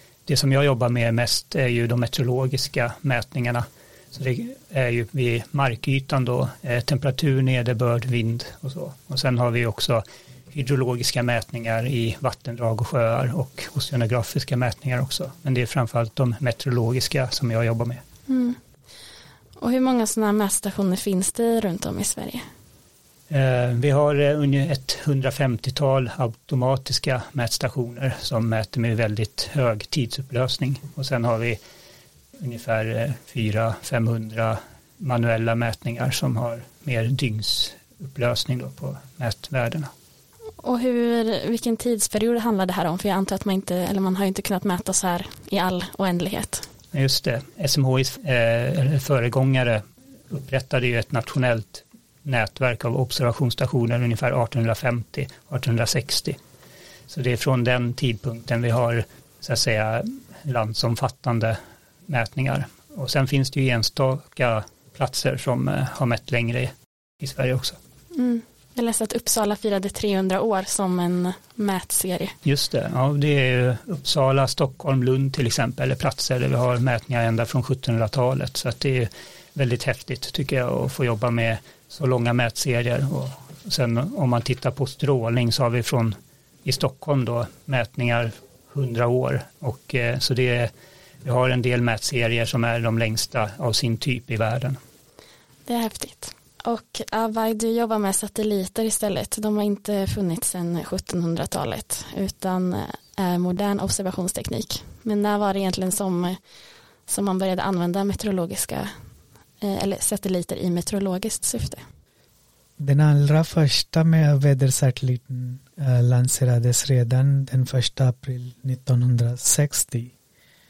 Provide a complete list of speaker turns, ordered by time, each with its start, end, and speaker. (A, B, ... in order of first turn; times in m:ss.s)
0:00.3-0:18.0 A
0:18.3-0:18.6 B
0:19.6-0:22.4 B
0:23.3-0:31.6 A
0:32.4-0:39.9 A
0:40.6-0:46.7 B
0:46.9-0:56.4 A
0:57.1-1:07.8 A
1:08.1-1:12.4 B
1:12.4-1:30.7 A
1:31.2-1:34.8 A
1:35.7-1:46.4 B
1:47.1-1:48.9 B
1:49.6-1:51.8 B
1:52.8-2:00.1 C